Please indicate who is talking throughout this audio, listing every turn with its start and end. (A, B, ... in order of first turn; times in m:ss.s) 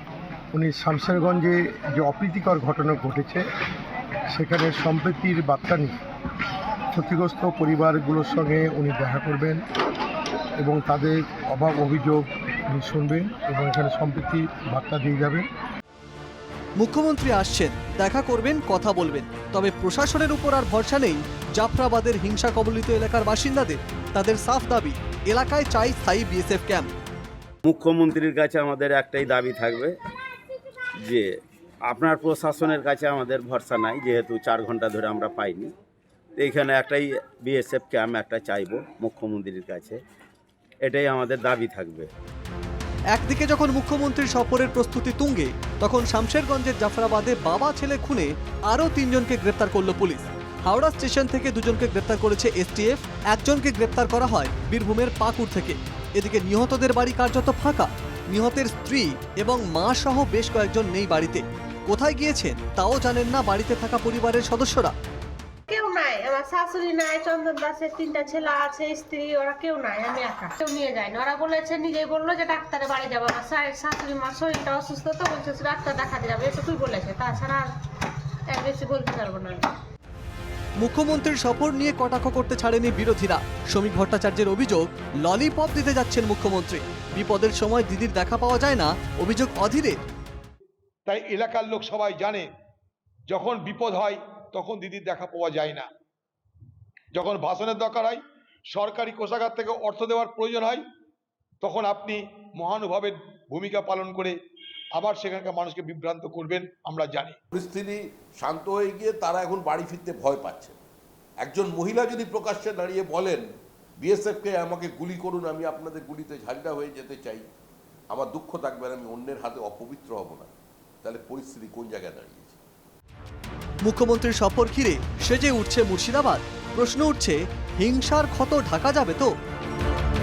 0:00.5-0:03.4 A
0:04.3-0:05.9 A
0:06.9-0:09.6 A
0:10.6-0:15.5 A
0:16.8-0:26.9 B
0:27.6-0:29.9 C
0:31.9-0:35.7 C
0:36.4-0:40.0 C
0:40.8-0:42.1 C
0:43.1-1:04.9 B
1:05.7-1:17.7 D
1:18.5-1:19.6 D
1:20.8-1:30.0 B
1:31.1-1:32.5 E
1:33.3-1:35.9 E
1:37.1-1:40.8 E
1:41.6-1:44.4 E
1:44.9-1:47.4 E
1:47.5-1:50.8 F
1:51.4-1:53.4 F
1:54.0-1:57.5 F
1:58.1-2:02.6 F
2:03.8-2:09.3 B